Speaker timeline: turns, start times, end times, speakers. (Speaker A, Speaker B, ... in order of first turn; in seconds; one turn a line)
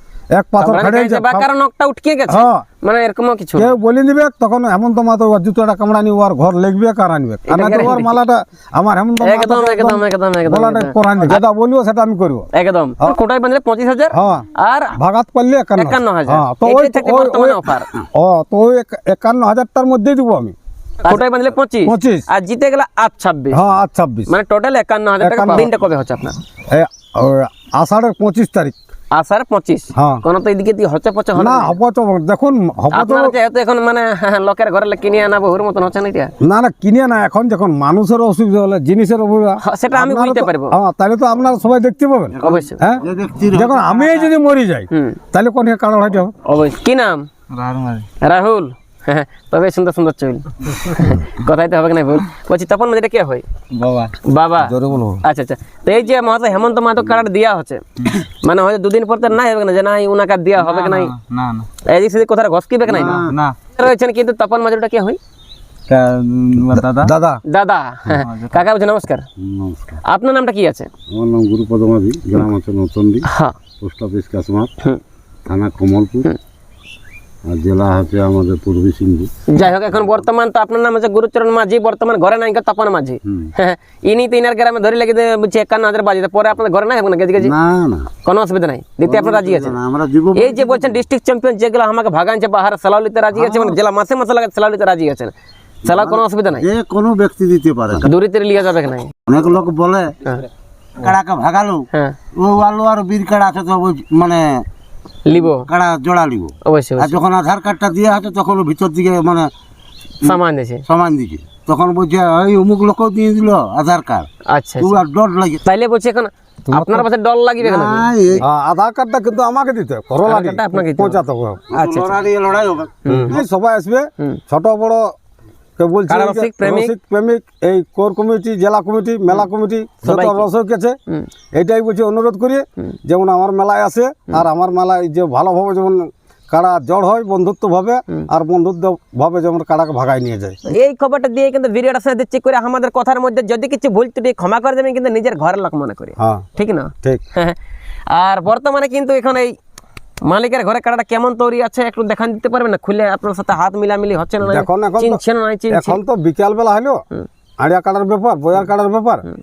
Speaker A: 0.3-1.5
Speaker B: 0.6-3.8
Speaker A: 2.3-2.6
Speaker A: 3.6-12.5
Speaker B: 7.5-8.2
Speaker B: 9.2-11.4
Speaker B: 12.5-15.0
Speaker A: 14.1-20.6
Speaker B: 15.8-17.9
Speaker B: 21.0-23.6
Speaker A: 21.8-22.2
Speaker A: 23.5-24.3
Speaker B: 24.3-26.4
Speaker A: 25.2-25.7
Speaker A: 26.7-28.8
Speaker B: 29.1-31.8
Speaker A: 29.9-30.2
Speaker A: 31.4-33.3
Speaker B: 32.9-36.3
Speaker A: 36.4-46.3
Speaker B: 39.6-40.8
Speaker B: 42.4-42.8
Speaker C: 42.4-44.2
Speaker B: 44.9-45.2
Speaker B: 46.5-47.3
Speaker D: 47.5-48.1
Speaker B: 48.2-53.4
Speaker D: 53.8-54.1
Speaker B: 54.2-61.1
Speaker A: 54.6-55.2
Speaker D: 60.6-61.7
Speaker B: 61.9-63.2
Speaker C: 62.9-63.3
Speaker D: 63.1-63.5
Speaker B: 63.8-65.2
Speaker D: 65.9-67.1
Speaker A: 66.8-67.4
Speaker B: 67.5-69.2
Speaker D: 68.2-68.6
Speaker C: 69.4-70.0
Speaker B: 70.0-70.9
Speaker C: 71.1-73.3
Speaker B: 73.3-73.6
Speaker C: 73.8-74.7
Speaker C: 75.5-76.3
Speaker C: 77.5-79.3
Speaker B: 79.5-87.5
Speaker C: 83.2-83.5
Speaker C: 87.4-88.1
Speaker B: 88.2-89.8
Speaker C: 89.0-91.0
Speaker B: 90.3-95.3
Speaker C: 93.3-93.8
Speaker C: 95.8-98.1
Speaker B: 95.9-96.7
Speaker B: 98.0-99.1
Speaker C: 99.3-100.2
Speaker C: 101.0-104.7
Speaker B: 105.3-105.7
Speaker C: 105.3-109.5
Speaker B: 106.7-107.2
Speaker C: 110.2-115.6
Speaker B: 110.2-110.8
Speaker B: 114.5-115.0
Speaker B: 115.7-118.1
Speaker A: 116.7-117.1
Speaker C: 117.6-118.5
Speaker A: 118.4-121.7
Speaker B: 120.2-122.2
Speaker C: 121.7-123.4
Speaker B: 123.1-123.4
Speaker A: 123.1-125.1
Speaker A: 125.8-130.9
Speaker B: 126.1-126.9
Speaker B: 130.0-130.5
Speaker A: 131.6-140.6
Speaker B: 140.7-147.6
Speaker A: 146.2-146.5
Speaker B: 148.1-149.6
Speaker B: 150.2-156.0
Speaker A: 154.4-157.0
Speaker A: 157.6-159.3